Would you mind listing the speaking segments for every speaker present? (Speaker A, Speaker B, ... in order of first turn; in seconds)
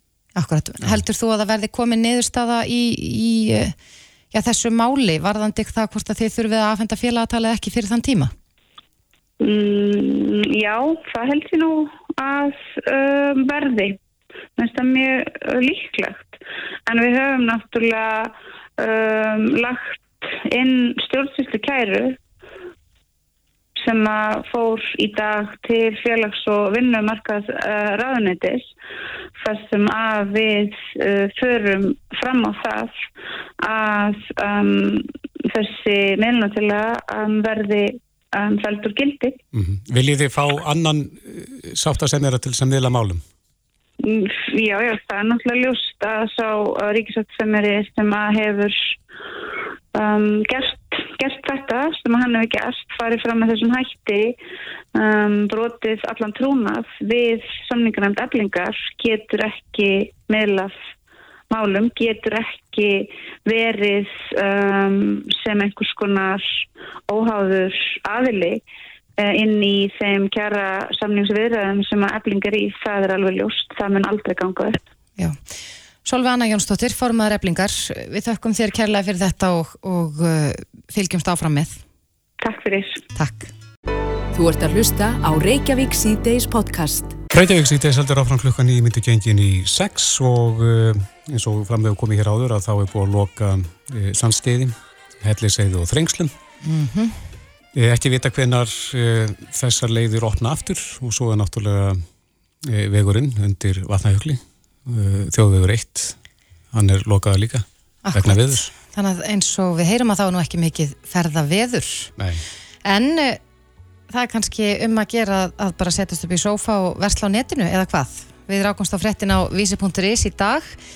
Speaker A: 0.3-3.7, 4.3-8.3, 76.0-81.8, 83.1-83.5, 96.6-97.2, 108.0-112.1, 112.8-113.4, 114.1-120.8
Speaker B: 9.4-14.0, 14.6-22.2, 23.8-28.7, 29.4-33.0, 33.6-39.4, 44.0-48.9, 49.9-54.3, 54.9-60.7, 61.5-68.6, 69.2-74.8, 82.4-83.0
Speaker C: 39.5-43.2, 87.3-96.3, 97.7-102.0, 102.6-106.1, 106.7-108.7, 112.2-112.4
Speaker D: 84.3-87.2